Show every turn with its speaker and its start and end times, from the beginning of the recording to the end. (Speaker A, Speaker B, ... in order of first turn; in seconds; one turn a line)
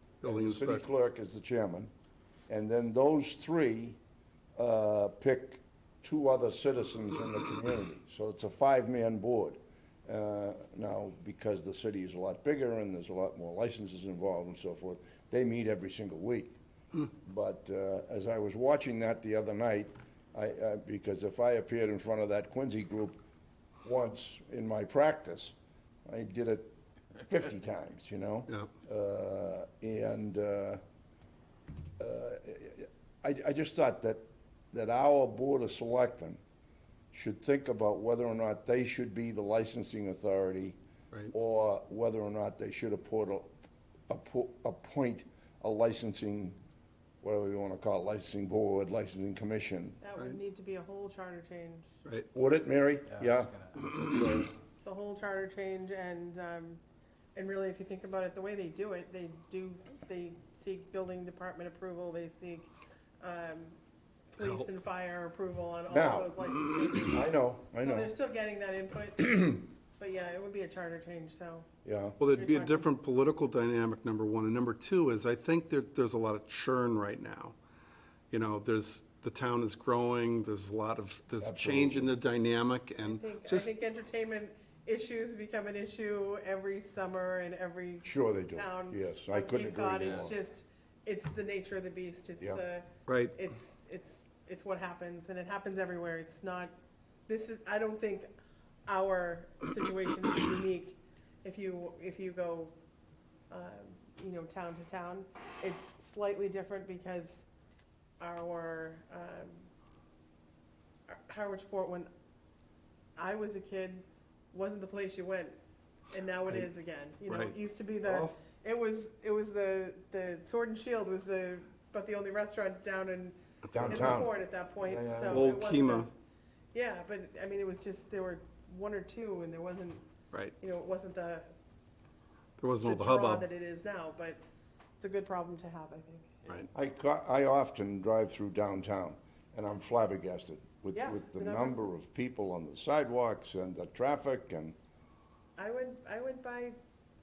Speaker A: 0.2-0.8
Speaker B: 0.2-1.9
Speaker B: 2.5-4.0
Speaker B: 4.6-16.6
Speaker B: 17.1-23.2
Speaker B: 23.8-30.8
Speaker B: 32.0-36.4
Speaker B: 37.1-40.8
Speaker B: 41.3-43.5
Speaker B: 44.1-46.6
Speaker B: 47.2-50.0
Speaker C: 50.0-51.9
Speaker B: 52.3-54.5
Speaker C: 54.8-56.8
Speaker C: 57.3-62.7
Speaker C: 63.2-63.8
Speaker C: 64.3-71.7
Speaker B: 65.9-66.4
Speaker B: 67.0-68.1
Speaker B: 71.8-72.2
Speaker A: 72.2-77.5
Speaker C: 72.3-72.9
Speaker A: 78.3-83.7
Speaker B: 81.4-82.1
Speaker C: 83.0-96.7
Speaker B: 88.0-90.3
Speaker A: 93.1-93.4
Speaker C: 97.3-98.3
Speaker C: 98.9-102.7
Speaker C: 103.5-107.5
Speaker C: 108.2-109.7
Speaker C: 111.1-112.1
Speaker C: 113.2-115.5
Speaker C: 116.1-126.1
Speaker A: 117.3-117.5
Speaker B: 118.0-118.3
Speaker A: 123.6-124.3
Speaker B: 123.7-124.3
Speaker B: 124.8-125.5
Speaker A: 125.3-126.1
Speaker C: 126.7-130.1
Speaker C: 130.6-131.5
Speaker A: 132.6-133.4
Speaker C: 132.8-134.4
Speaker C: 135.0-136.4
Speaker B: 136.7-144.7
Speaker C: 140.9-141.8
Speaker C: 145.6-146.7